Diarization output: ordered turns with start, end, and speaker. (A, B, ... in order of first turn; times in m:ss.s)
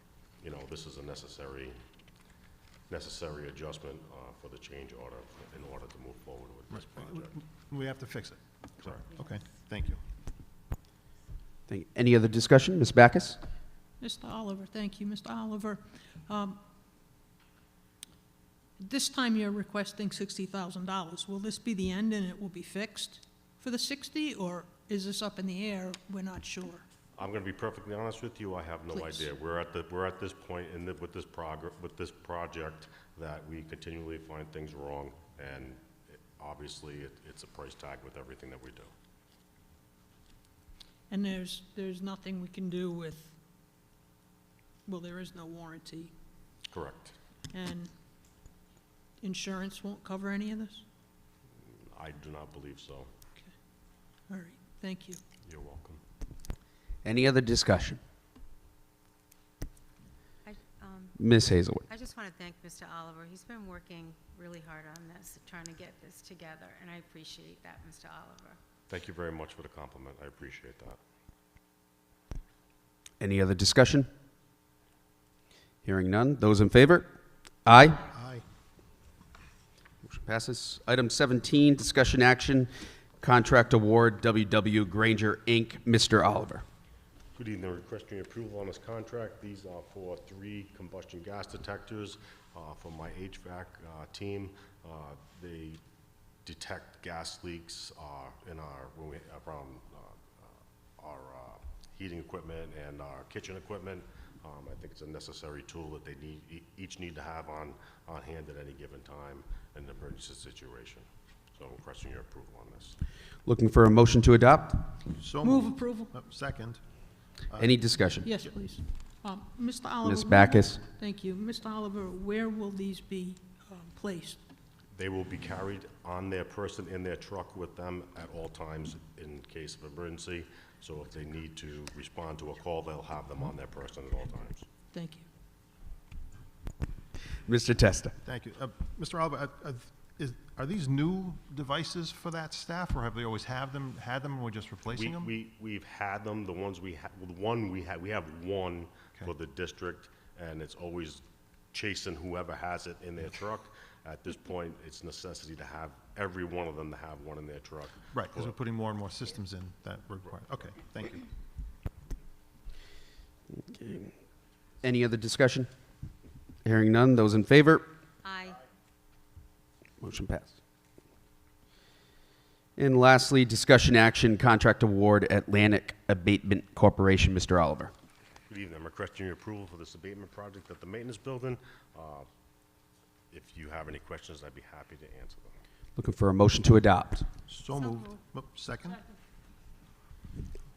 0:00.4-0:01.8 A
0:02.9-0:07.4 A
0:06.7-0:10.0 B
0:08.8-0:09.0 A
0:11.7-0:13.4 C
0:14.0-0:16.6 D
0:18.8-0:26.8 D
0:27.2-0:38.9 A
0:28.9-0:29.3 D
0:41.1-0:43.4 D
0:44.8-0:46.1 D
0:46.7-0:47.2 A
0:47.5-0:47.9 D
0:49.2-0:50.8 D
0:51.9-0:53.1 A
0:54.3-0:55.2 D
0:55.4-0:56.0 A
0:57.0-0:58.0 C
1:00.4-1:01.2 E
1:01.2-1:01.8 C
1:01.9-1:08.6 E
1:08.9-1:11.0 A
1:13.2-1:14.1 C
1:15.8-1:17.1 C
1:17.6-1:18.0 C
1:18.1-1:18.4 B
1:20.0-1:26.6 C
1:27.3-1:35.8 A
1:36.4-1:53.0 A
1:53.4-1:55.0 C
1:55.2-1:56.8 B
1:55.4-1:56.1 D
1:57.5-1:57.7 B
1:57.6-1:58.2 C
1:58.2-2:04.4 D
2:00.0-2:00.8 C
2:04.9-2:14.6 A
2:14.9-2:15.2 D
2:17.4-2:18.2 C
2:18.2-2:25.3 B
2:24.9-2:38.6 A
2:38.1-2:41.3 B
2:43.6-2:44.1 C
2:44.8-2:45.7 C
2:46.6-2:47.8 C
2:48.2-2:48.6 E
2:50.0-2:50.6 C
2:52.8-2:57.9 C
2:58.5-3:02.3 A
3:03.3-3:05.6 A
3:06.0-3:07.3 C
3:07.5-3:09.0 B
3:07.7-3:08.2 E